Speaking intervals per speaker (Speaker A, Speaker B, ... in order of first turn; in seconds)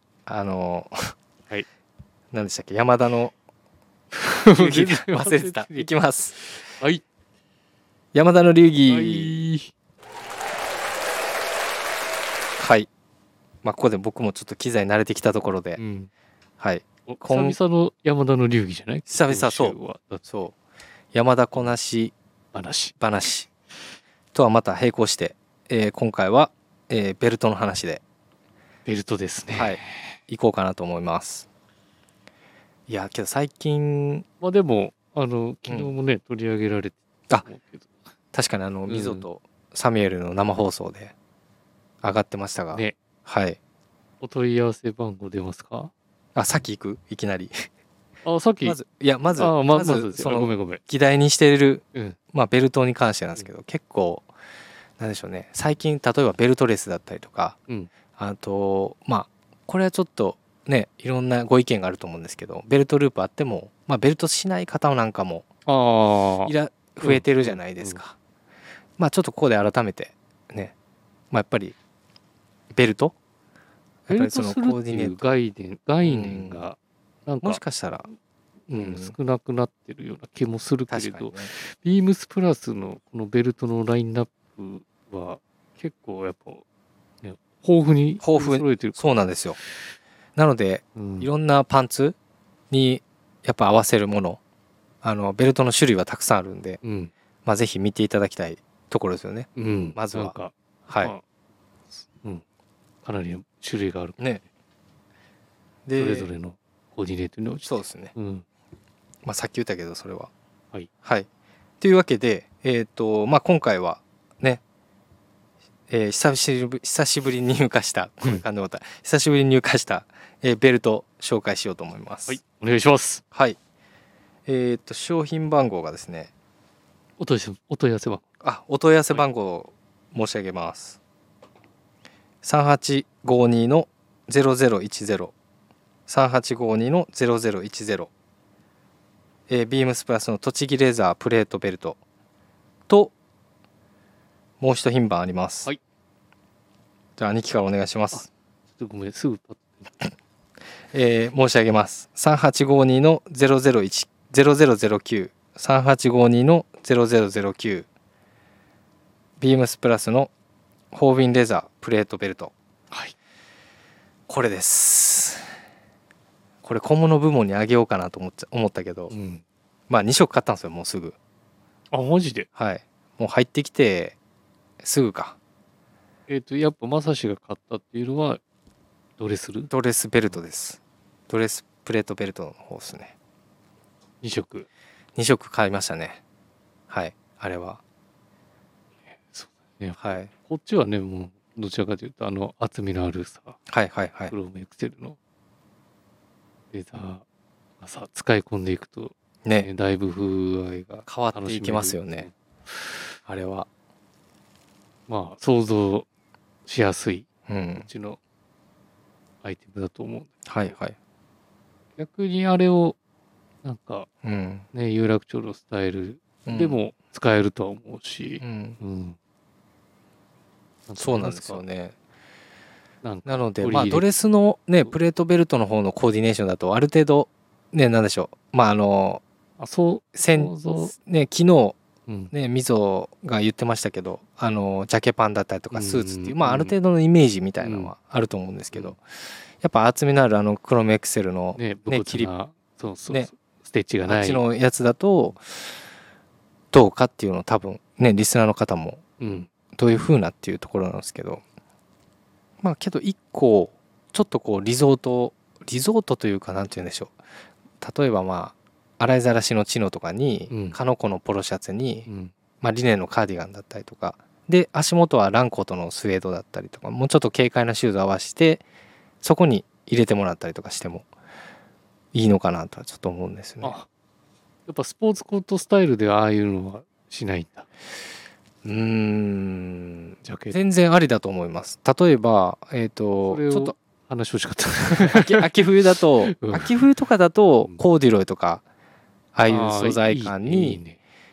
Speaker A: 0.2-1.1, 2.3-3.3, 4.5-6.3, 8.1-9.4, 12.6-12.9, 13.6-15.8, 16.6-17.6, 19.1-20.5, 21.1-22.1, 23.0-23.5, 24.3-28.0, 29.6-31.5, 32.9-34.2, 35.7-35.9, 38.3-41.1, 42.0-43.6, 46.3-47.5, 48.6-54.3, 55.0-57.6, 58.2-65.5, 66.5-68.2, 69.0-70.7, 71.3-71.8, 72.7-73.1, 74.1-75.2, 76.0-76.6, 77.4-78.0, 78.7-79.1, 80.9-81.5, 88.2-89.6, 90.3-92.2, 92.7-94.4, 95.0-96.8, 97.4-100.3, 105.8-106.3, 107.6-108.1, 109.2-110.3, 111.8-114.6, 115.9-122.4, 123.3-123.6, 124.5-126.3, 128.4-131.0, 132.4-135.3, 136.1-138.1, 139.5-142.0, 142.9-143.1, 144.6-145.7, 147.2-148.3, 150.9-157.8, 159.4-160.3, 160.9-162.5, 164.3-165.5, 166.6-169.1, 169.9-171.2, 172.6-174.2, 174.8-175.3, 179.7-183.1, 185.2-186.2, 186.9-187.8, 190.0-190.3, 193.7-194.3, 201.1-202.3, 203.3-203.7, 207.5-207.9, 210.4-210.9, 214.2-214.6, 216.4-216.8, 218.4-218.8, 221.0-221.9, 223.2-229.2, 230.1-231.8, 232.3-239.0, 239.6-242.3, 244.1-245.6, 246.7-249.0, 249.7-251.4, 252.6-257.1, 257.8-262.1, 262.6-268.6, 269.2-271.1, 272.1-273.8, 278.6-283.7, 284.9-288.6, 289.3-290.8
Speaker B: 4.1-7.0, 8.8-9.7, 15.8-16.1, 17.1-20.2, 22.5-22.9, 28.9-30.2, 34.4-37.9, 38.9-39.2, 44.2-45.9, 48.2-48.8, 49.3-50.8, 65.7-68.0, 74.1-77.6, 78.7-86.6, 87.2-89.1, 91.0-91.3, 96.8-97.1, 99.5-101.2, 102.0-102.4, 103.0-104.2, 106.0-108.4, 122.3-123.2, 127.2-128.2, 148.1-150.1, 169.1-169.4, 171.9-172.5, 176.3-178.4, 179.2-179.7, 184.2-184.7, 189.2-193.6, 194.3-195.2, 196.7-197.2, 197.8-202.3, 205.1-206.1, 206.7-208.2, 209.4-210.7, 212.0-212.9, 213.6-214.1, 214.7-219.2, 220.9-221.6, 223.0-224.1, 229.6-230.9, 232.1-232.3, 235.7-236.7, 237.6-237.9, 241.6-244.4, 249.2-249.5, 260.5-260.8, 262.1-262.3, 273.6-273.9, 274.7-277.7, 280.2-280.6, 283.2-286.8, 289.4-291.0